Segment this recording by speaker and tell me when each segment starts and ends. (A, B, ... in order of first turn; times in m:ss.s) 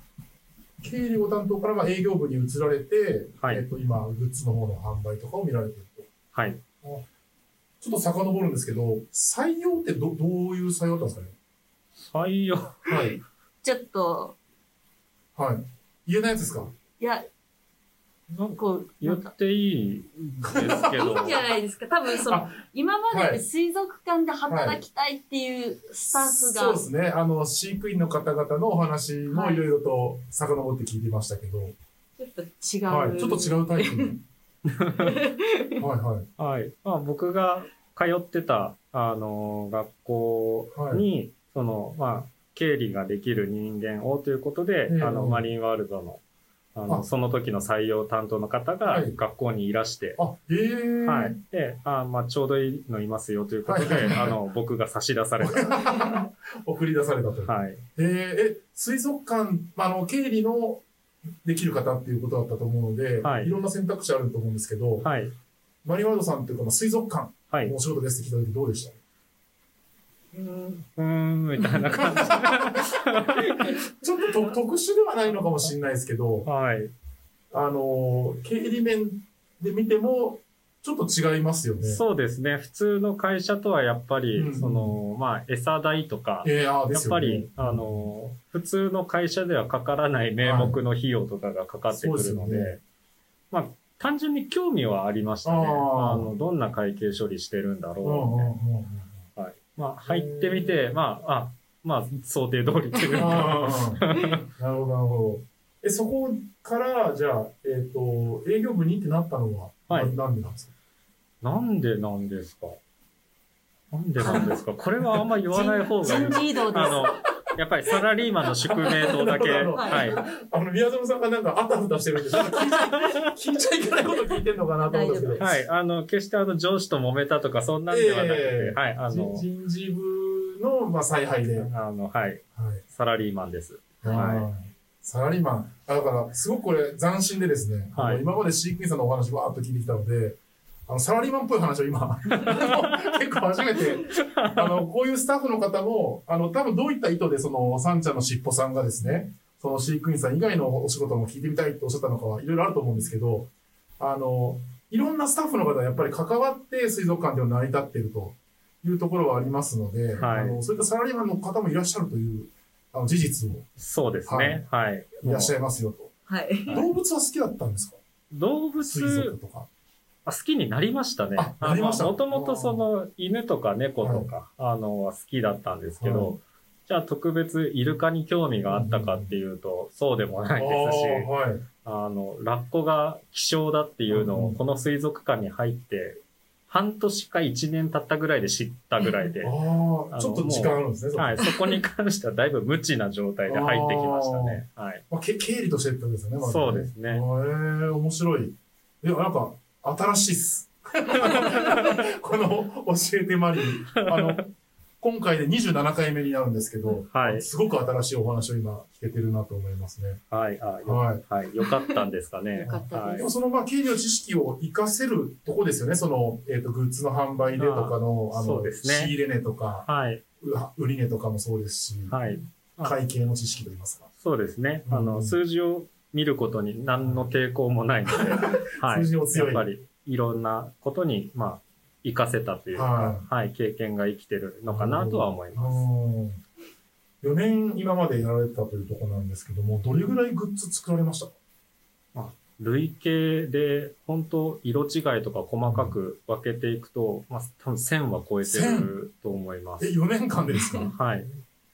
0:00.8-0:06.1 A
0:06.3-0:06.6 B
0:07.8-0:11.3 A
0:12.0-0:12.8 B
0:12.8-0:13.2 A
0:12.9-0:14.4 C
0:15.3-0:16.7 A
0:17.0-0:17.3 C
0:18.3-0:21.4 B
0:18.6-0:19.3 C
0:20.4-0:21.3 A
0:20.8-0:26.8 C
0:22.1-0:23.4 A
0:24.5-0:24.8 A
0:26.0-0:31.8 A
0:29.3-0:29.6 C
0:32.2-0:34.1 C
0:32.9-0:34.2 A
0:34.6-0:35.2 B
0:35.0-0:35.8 C
0:35.8-0:36.3 A
0:36.4-0:46.2 B
0:40.7-0:41.0 A
0:44.9-0:45.5 A
0:46.7-0:50.2 B
0:48.8-0:49.1 A
0:50.2-0:51.4 A
0:51.0-0:55.9 B
0:53.6-0:54.4 A
0:55.4-1:00.8 A
0:57.4-0:57.8 B
1:01.4-1:05.1 A
1:03.2-1:03.5 B
1:05.0-1:05.3 B
1:05.8-1:09.0 A
1:07.5-1:07.7 B
1:10.3-1:13.8 B
1:11.9-1:16.5 A
1:16.4-1:16.9 B
1:17.5-1:22.0 A
1:21.8-1:32.8 B
1:24.3-1:25.0 A
1:26.4-1:28.1 A
1:30.4-1:30.8 A
1:31.9-1:32.8 A
1:33.5-1:38.5 B
1:35.4-1:36.3 A
1:38.0-1:39.2 A
1:39.4-1:44.4 B
1:40.0-1:40.8 A
1:43.2-1:50.7 A
1:49.9-1:50.1 B
1:51.4-1:52.8 B
1:53.9-2:00.2 B
1:54.2-1:54.5 C
1:55.5-1:57.2 C
1:56.0-1:57.1 A
1:58.7-2:05.6 A
1:59.7-2:00.1 C
2:02.3-2:03.3 B
2:04.9-2:05.4 C
2:05.4-2:09.4 B
2:07.9-2:11.7 A
2:11.6-2:14.5 B
2:12.6-2:12.8 A
2:14.0-2:43.7 A
2:17.9-2:18.2 B
2:22.3-2:23.1 B
2:24.1-2:24.8 B
2:40.2-2:40.6 B
2:43.8-2:45.5 B
2:44.3-2:44.6 A
2:45.2-2:46.1 A
2:46.3-2:46.8 C
2:46.7-2:48.0 A
2:48.3-2:49.4 B
2:48.8-2:49.7 A
2:50.2-3:01.3 B
2:51.4-2:52.9 A
2:54.0-2:54.3 A
2:56.0-2:56.4 A
2:58.7-2:59.3 A
3:00.5-3:01.6 A
3:01.8-3:09.6 B
3:04.1-3:04.6 A
3:09.4-3:11.5 A
3:10.1-3:15.0 B
3:13.5-3:24.5 A
3:16.4-3:17.2 B
3:21.1-3:22.0 B
3:23.9-3:24.4 B
3:25.0-3:30.2 A
3:27.1-3:27.5 B
3:30.3-3:33.3 B
3:30.8-3:31.2 A
3:32.6-3:33.3 C
3:32.6-3:39.9 A
3:37.6-3:39.1 B
3:39.8-3:40.2 B
3:40.4-3:42.2 A
3:42.1-3:43.0 B
3:42.8-3:44.1 A
3:44.2-3:55.8 B
3:44.8-3:45.4 A
3:48.1-3:49.7 A
3:52.7-3:53.2 A
3:54.7-3:56.4 A
3:57.2-4:01.3 A
4:02.1-4:09.9 B
4:05.7-4:05.9 A
4:08.4-4:08.9 A
4:09.8-4:10.9 A
4:10.7-4:11.3 B